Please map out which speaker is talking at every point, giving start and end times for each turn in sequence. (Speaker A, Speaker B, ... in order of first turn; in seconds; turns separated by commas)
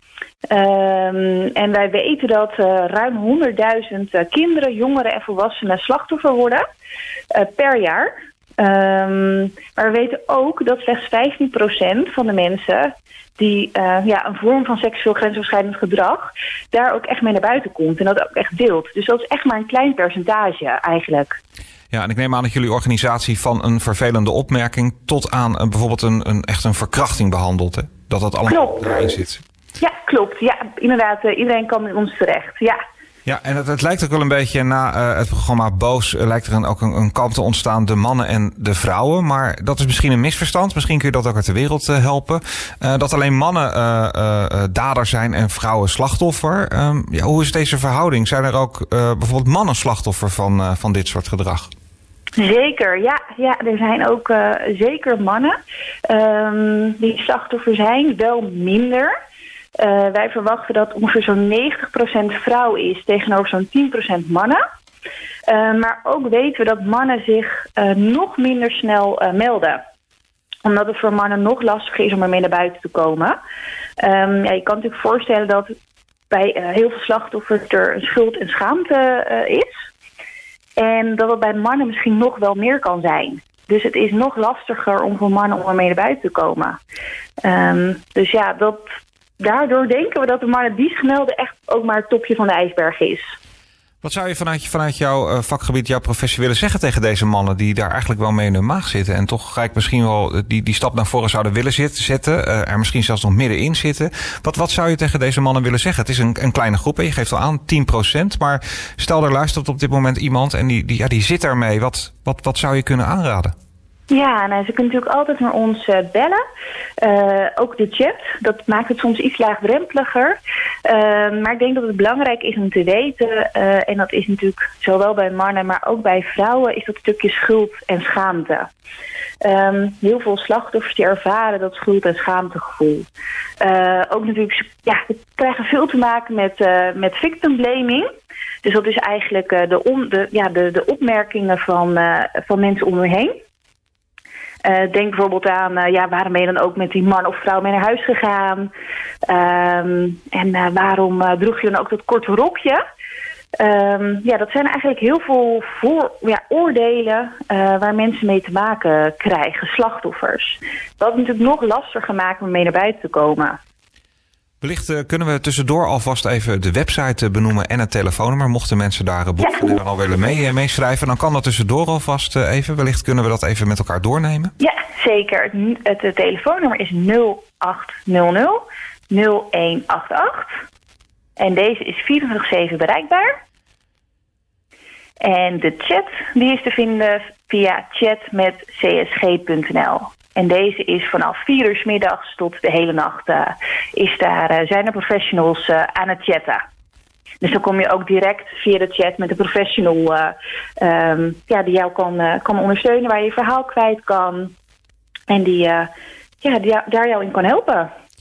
Speaker A: 0.5-6.7, Speaker A: 7.3-21.4, Speaker B: 21.9-29.4, Speaker A: 28.5-28.9, Speaker A: 29.8-32.8, Speaker B: 33.3-51.7, Speaker A: 52.4-59.1, Speaker A: 59.8-64.6, Speaker A: 65.5-69.8, Speaker A: 70.7-73.4, Speaker A: 74.0-75.8, Speaker A: 76.3-79.9, Speaker A: 80.8-86.8, Speaker A: 87.4-93.3, Speaker B: 94.0-113.5, Speaker A: 114.1-116.4, Speaker A: 117.0-128.7, Speaker A: 129.4-133.1, Speaker A: 133.6-138.1, Speaker A: 138.6-143.4, Speaker A: 144.6-148.7, Speaker A: 149.2-152.8, Speaker A: 153.6-163.6, Speaker B: 164.6-174.5, Speaker A: 174.6-180.6, Speaker A: 181.4-183.4, Speaker A: 185.2-196.6, Speaker A: 197.4-204.5, Speaker A: 205.3-207.9